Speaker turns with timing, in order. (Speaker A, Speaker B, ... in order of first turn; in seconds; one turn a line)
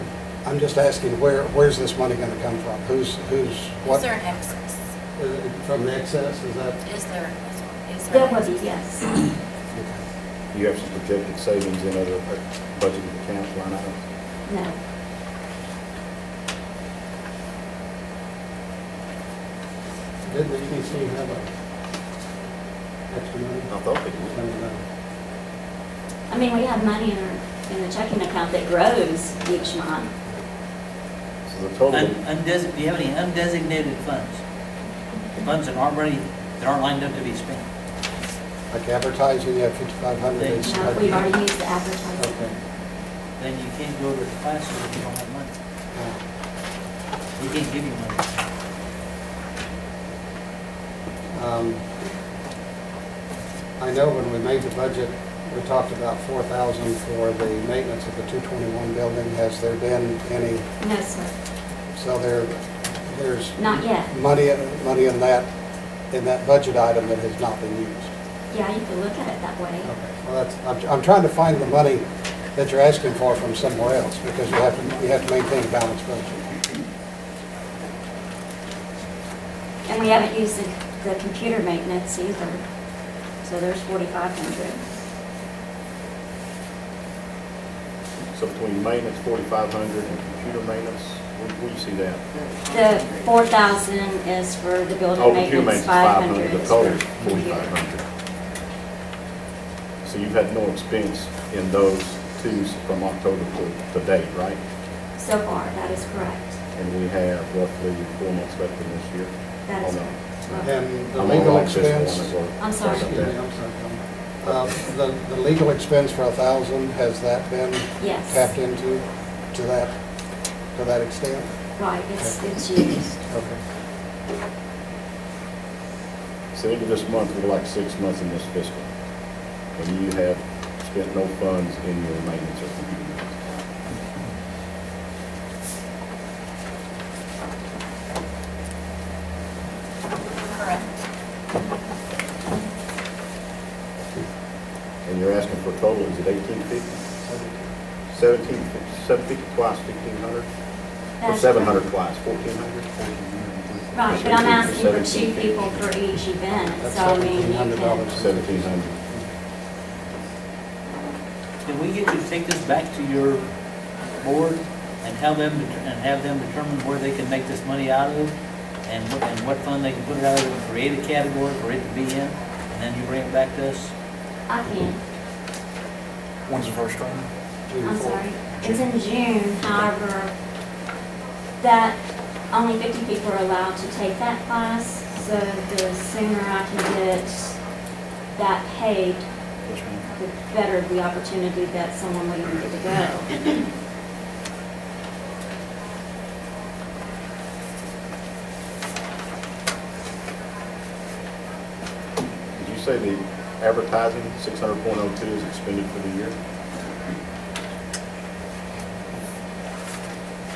Speaker A: 0.4-4.1
Speaker B: 3.8-4.8
Speaker A: 5.2-6.8
Speaker B: 6.8-8.7
Speaker C: 8.1-9.2
Speaker A: 9.7-10.0
Speaker D: 10.5-14.0
Speaker C: 14.4-14.8
Speaker A: 20.2-21.5
Speaker A: 23.1-23.8
Speaker D: 23.7-24.4
Speaker A: 24.3-24.8
Speaker C: 26.3-30.1
Speaker D: 31.4-32.2
Speaker E: 31.9-34.4
Speaker E: 35.4-37.7
Speaker A: 38.7-41.3
Speaker E: 40.3-41.3
Speaker C: 40.6-42.5
Speaker A: 42.2-42.6
Speaker E: 43.4-45.5
Speaker A: 45.9-46.2
Speaker E: 47.4-48.2
Speaker A: 51.3-51.8
Speaker A: 53.8-60.6
Speaker C: 60.8-61.3
Speaker A: 61.9-65.5
Speaker C: 63.5-64.1
Speaker A: 66.1-68.1
Speaker C: 68.5-69.9
Speaker A: 69.8-76.6
Speaker C: 79.9-82.6
Speaker C: 83.4-84.8
Speaker D: 88.3-92.2
Speaker C: 92.7-97.7
Speaker D: 95.2-98.0
Speaker D: 100.0-104.6
Speaker C: 105.2-106.6
Speaker D: 106.7-113.3
Speaker C: 109.7-110.7
Speaker A: 110.6-120.0
Speaker C: 112.6-113.1
Speaker D: 114.4-114.8
Speaker C: 118.0-118.4
Speaker A: 120.7-121.5
Speaker C: 121.8-123.2
Speaker A: 122.2-122.4
Speaker A: 123.3-123.6
Speaker D: 126.5-128.9
Speaker D: 129.7-133.4
Speaker B: 140.4-140.9
Speaker D: 145.0-147.0
Speaker A: 147.2-147.7
Speaker D: 148.1-150.5
Speaker C: 151.2-151.8
Speaker D: 151.2-153.0
Speaker F: 153.0-154.6
Speaker D: 153.9-155.9
Speaker C: 153.9-158.1
Speaker A: 156.6-159.3
Speaker D: 158.1-158.9
Speaker E: 161.6-163.5
Speaker E: 164.2-173.9
Speaker C: 174.5-175.0
Speaker F: 176.5-177.3
Speaker A: 177.7-178.1
Speaker F: 177.8-178.0
Speaker C: 177.8-180.3
Speaker C: 181.6-182.0
Speaker C: 182.5-187.6
Speaker C: 188.3-189.2
Speaker F: 189.7-190.0
Speaker C: 190.2-193.6
Speaker D: 202.5-206.3